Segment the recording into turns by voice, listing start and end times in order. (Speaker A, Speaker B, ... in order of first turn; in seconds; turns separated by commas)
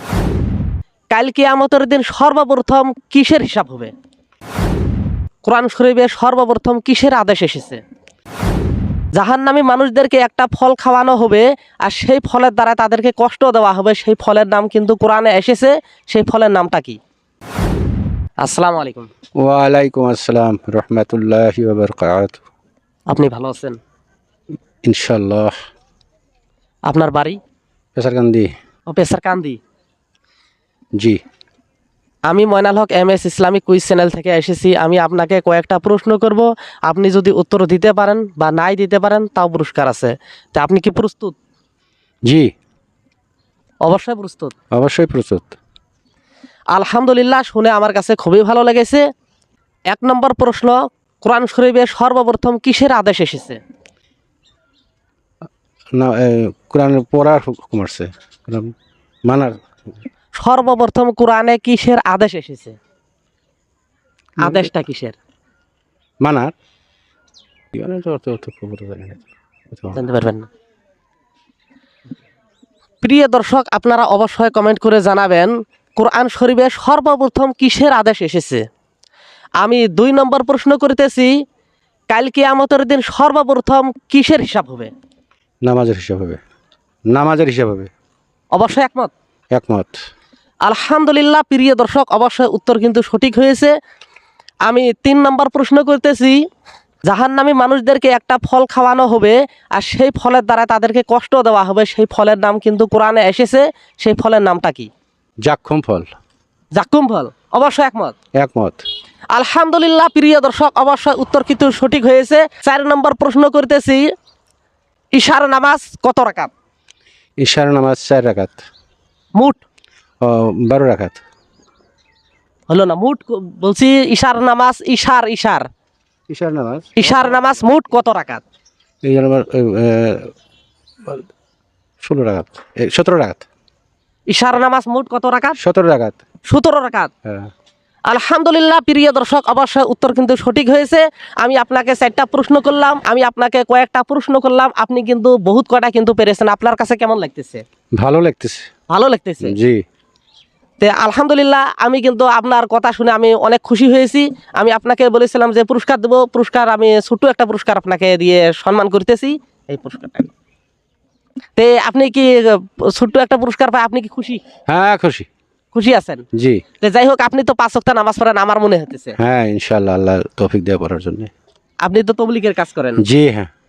Speaker A: 1.1-3.9, Speaker A: 5.4-7.8, Speaker A: 9.2-17.0, Speaker A: 18.4-19.1, Speaker B: 19.4-22.4, Speaker A: 23.1-23.8, Speaker B: 24.9-25.5, Speaker A: 26.9-27.4, Speaker B: 28.0-28.5, Speaker A: 28.9-29.6, Speaker A: 32.3-41.4, Speaker A: 43.9-44.5, Speaker B: 44.7-45.6, Speaker A: 46.7-49.1, Speaker A: 49.9-53.6, Speaker B: 56.0-58.7, Speaker B: 59.2-59.6, Speaker A: 60.4-62.8, Speaker A: 64.4-65.2, Speaker B: 64.4-64.7, Speaker B: 66.2-66.5, Speaker B: 67.7-70.0, Speaker A: 69.9-70.5, Speaker A: 73.0-78.7, Speaker A: 79.6-81.4, Speaker A: 82.1-84.9, Speaker B: 85.7-86.4, Speaker B: 87.1-87.9, Speaker A: 88.5-89.1, Speaker B: 89.5-90.0, Speaker A: 90.7-93.8, Speaker A: 94.7-96.5, Speaker A: 97.1-104.9, Speaker B: 105.5-106.1, Speaker A: 106.8-108.2, Speaker B: 108.3-108.8, Speaker A: 109.3-114.1, Speaker A: 115.2-116.5, Speaker B: 117.4-118.6, Speaker A: 119.4-119.6, Speaker B: 120.2-121.2, Speaker A: 122.7-125.7, Speaker B: 126.3-127.0, Speaker A: 127.0-128.4, Speaker B: 129.0-130.3, Speaker B: 132.0-133.5, Speaker A: 134.3-135.6, Speaker B: 135.6-136.2, Speaker A: 136.5-137.1, Speaker B: 137.2-137.5, Speaker A: 138.1-147.6, Speaker B: 148.0-148.7, Speaker A: 148.9-149.6, Speaker B: 149.4-149.8, Speaker A: 150.8-160.3, Speaker A: 161.6-164.4, Speaker B: 164.7-165.3, Speaker A: 165.7-166.2, Speaker B: 166.3-166.6, Speaker A: 166.8-169.2, Speaker B: 169.2-171.3, Speaker A: 171.8-173.0, Speaker B: 173.0-173.5